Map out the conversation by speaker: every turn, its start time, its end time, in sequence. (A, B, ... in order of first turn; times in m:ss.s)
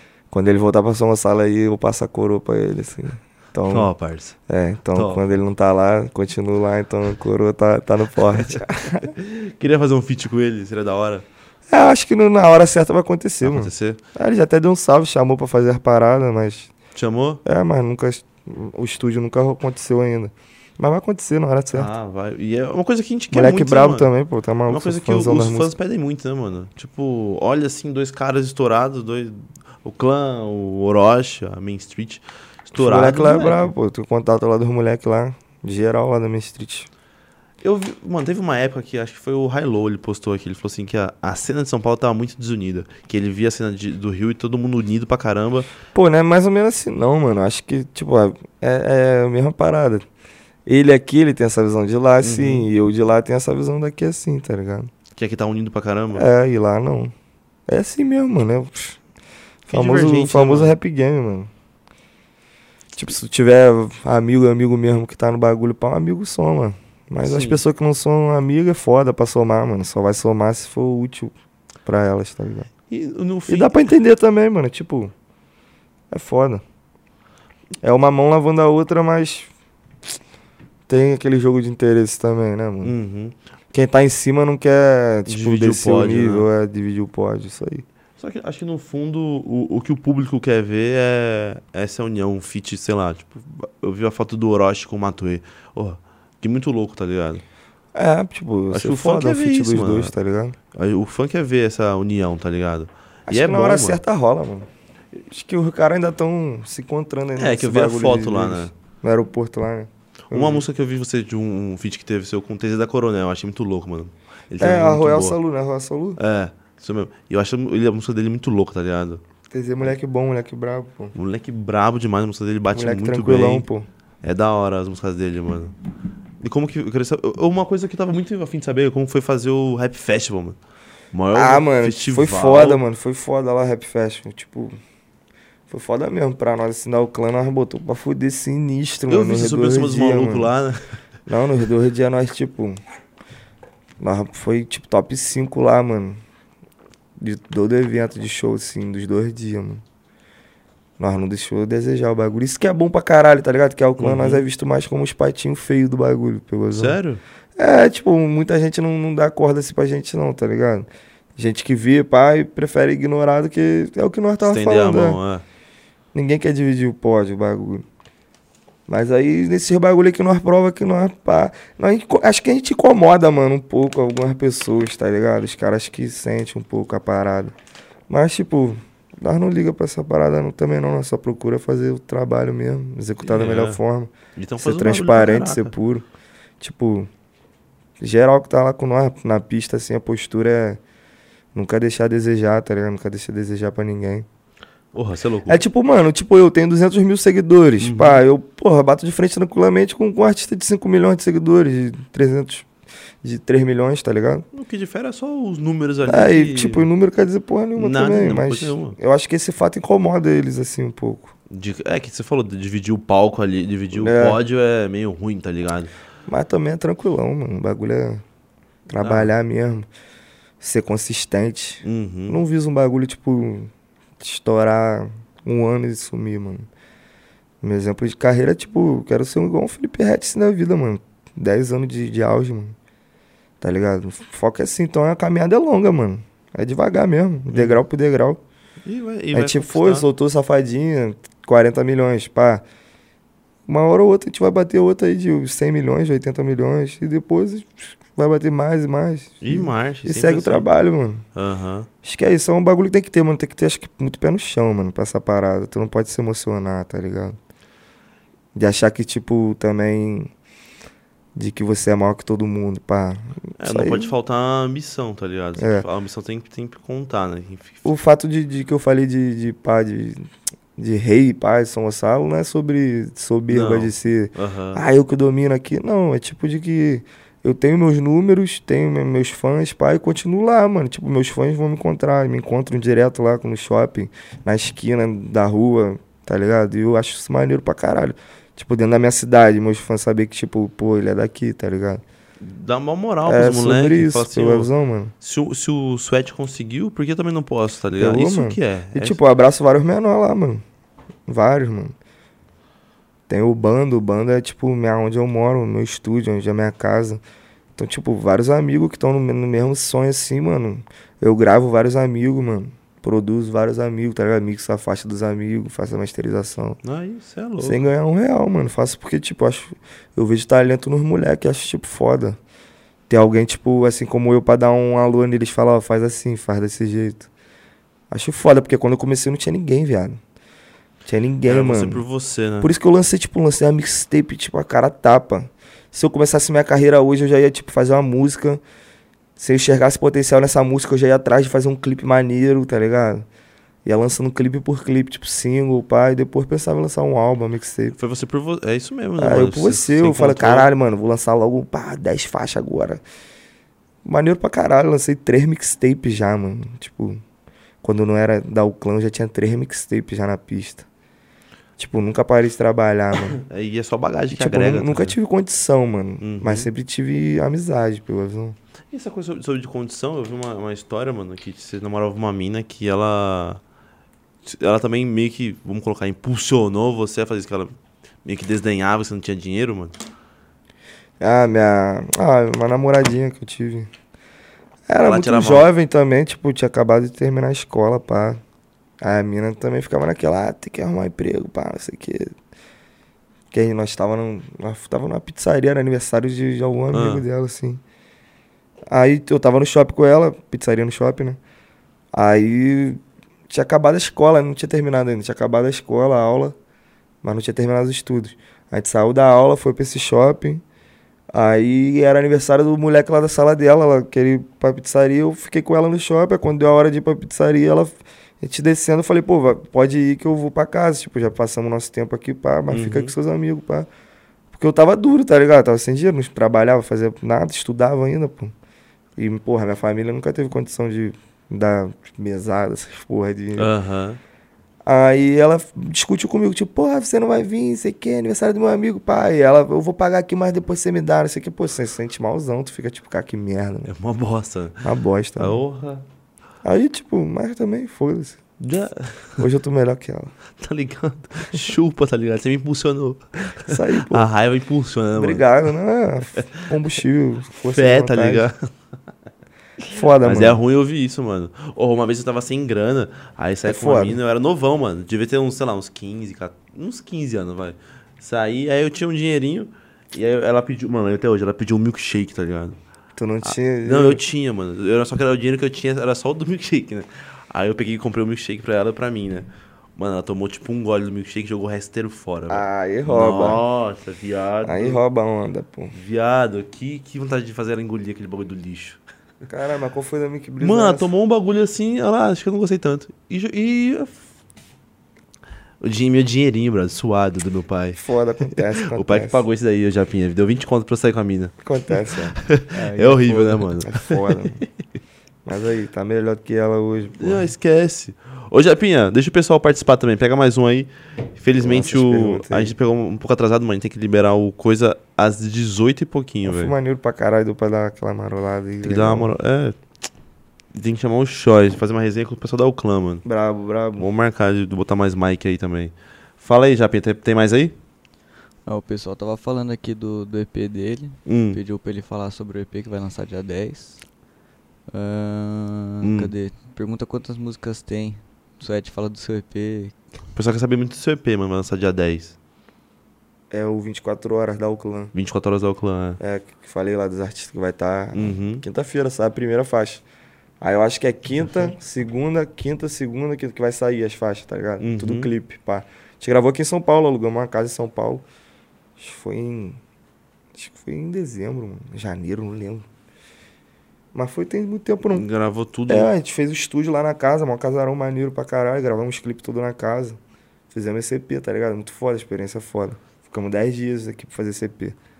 0:00.3-0:03.9 A
0:03.7-0:04.4 B
0:04.5-0:09.1 A
0:04.9-0:05.4 B
0:08.4-0:11.2 B
0:11.7-0:16.7 A
0:13.4-0:14.0 B
0:16.9-0:17.4 B
0:17.4-0:21.9 A
0:21.7-0:24.1 B
0:23.3-0:25.7 A
0:24.7-0:33.7 B
0:32.7-0:36.9 A
0:37.6-0:45.7 B
0:45.9-0:50.0 A
0:50.6-0:54.9 A
0:52.2-0:52.7 B
0:55.2-0:56.3 B
0:56.1-0:57.1 A
0:57.7-0:59.0 A
0:59.7-1:01.5 A
0:59.7-1:00.7 B
1:03.0-1:11.3 A
1:07.2-1:07.6 B
1:11.8-1:12.7 A
1:12.9-1:13.8 B
1:13.5-1:15.1 A
1:16.1-1:16.6 A
1:17.8-1:19.5 A
1:20.9-1:22.9 A
1:22.8-1:23.3 B
1:23.7-1:27.8 A
1:25.2-1:26.5 B
1:28.2-1:37.4 B
1:37.9-1:40.6 A
1:38.7-1:40.1 B
1:40.7-1:44.0 B
1:43.3-1:44.7 A
1:45.3-1:50.6 A
1:47.4-1:48.7 B
1:50.3-1:55.4 B
1:54.6-1:56.2 A
1:56.2-1:59.2 B
1:59.5-2:01.1 A
2:01.1-2:03.6 B
2:02.7-2:03.9 A
2:04.2-2:05.7 B
2:06.4-2:10.6 B
2:11.1-2:12.8 B
2:11.3-2:14.8 A
2:15.7-2:20.5 A
2:19.1-2:20.8 B
2:21.3-2:22.8 A
2:24.0-2:26.2 A
2:27.2-2:29.8 A
2:31.0-2:37.0 A
2:34.0-2:34.4 B
2:36.7-2:37.2 B
2:37.6-2:45.2 A
2:44.4-2:45.4 B
2:46.1-2:47.8 A
2:48.9-2:57.5 A
2:58.1-3:06.0 A
3:03.2-3:03.8 B
3:04.4-3:05.7 B
3:06.6-3:07.1 A
3:08.0-3:10.8 A
3:11.5-3:14.2 A
3:14.9-3:15.6 B
3:15.5-3:22.7 A
3:17.8-3:18.2 B
3:23.2-3:24.4 A
3:24.5-3:26.9 B
3:26.0-3:31.3 A
3:27.8-3:29.0 B
3:31.5-3:35.9 B
3:33.9-3:34.4 A
3:36.3-3:38.2 A
3:38.9-3:39.9 A
3:39.0-3:39.3 B
3:40.6-3:46.7 A
3:41.8-3:42.4 B
3:47.6-3:52.8 A
3:53.6-3:58.4 A
3:57.5-3:57.8 B
3:58.8-4:00.1 B
3:59.3-4:02.6 A
4:03.7-4:11.2 A
4:09.4-4:10.7 B
4:11.3-4:11.9 B
4:12.0-4:17.4 A
4:18.5-4:20.3 A
4:21.4-4:24.1 A
4:23.6-4:27.9 B
4:25.6-4:25.9 A
4:27.8-4:52.0 A
4:33.5-4:34.8 B
4:52.4-4:54.7 B
4:53.2-4:55.1 A
4:55.2-4:59.2 B
4:58.0-5:00.6 A
5:01.3-5:01.9 A
5:03.3-5:07.2 A
5:07.8-5:16.8 A
5:16.8-5:17.8 B
5:17.6-5:22.4 A
5:23.1-5:27.3 A
5:28.1-5:30.2 A
5:31.0-5:32.0 A
5:31.4-5:32.7 B
5:32.6-5:38.6 A
5:39.4-5:43.2 A
5:43.8-5:48.0 A
5:48.0-5:50.7 B
5:49.2-5:53.0 A
5:54.0-5:57.2 A
5:57.8-6:00.8 A
6:01.8-6:03.4 A
6:03.4-6:05.2 B
6:04.3-6:08.6 A
6:06.2-6:06.7 B
6:08.9-6:13.6 B
6:14.4-6:20.0 B
6:21.2-6:23.9 A
6:24.9-6:28.4 A
6:25.0-6:25.7 B
6:29.0-6:32.3 A
6:33.5-6:37.8 A
6:36.9-6:37.2 B
6:38.9-6:41.4 A
6:42.1-6:46.6 A
6:47.2-6:50.6 A
6:51.3-7:03.9 A
7:02.7-7:03.1 B
7:04.5-7:08.5 A
7:09.2-7:13.7 A
7:13.6-7:14.2 B
7:14.8-7:23.9 A
7:23.8-7:26.0 B
7:24.8-7:25.6 A
7:26.6-7:28.4 A
7:28.6-7:29.4 B
7:29.4-7:30.3 A
7:30.6-7:35.4 B
7:33.6-7:34.3 A
7:35.2-7:38.5 A
7:36.4-7:36.7 B
7:37.6-7:38.6 B
7:39.9-7:40.6 A
7:40.2-7:52.8 B
7:43.7-7:44.2 A
7:53.2-7:54.2 A
7:53.4-8:05.0 B
8:02.5-8:03.6 A
8:04.6-8:05.9 A
8:05.9-8:09.0 B
8:09.5-8:11.1 A
8:10.6-8:14.2 B
8:15.8-8:18.0 B
8:18.0-8:19.4 A
8:18.5-8:21.5 B
8:21.6-8:22.4 A
8:22.4-8:24.6 B
8:22.7-8:23.7 C
8:23.8-8:24.6 A
8:25.4-8:27.5 A
8:27.2-8:36.7 B
8:31.6-8:32.7 A
8:36.4-8:39.3 A
8:38.8-8:39.8 B
8:40.7-8:43.2 B
8:43.2-8:44.0 A
8:44.0-8:47.7 B
8:48.6-8:54.0 C
8:51.2-8:51.6 B
8:54.9-9:00.0 C
8:56.0-8:56.3 B
9:00.3-9:02.4 B
9:03.5-9:05.1 A
9:05.1-9:06.2 B
9:06.2-9:10.0 A
9:08.1-9:08.6 B
9:10.6-9:18.2 A
9:14.8-9:15.3 B
9:19.0-9:19.8 A
9:20.5-9:22.8 A
9:24.1-9:25.2 A
9:25.0-9:26.1 B
9:25.9-9:30.2 A
9:30.7-9:35.0 A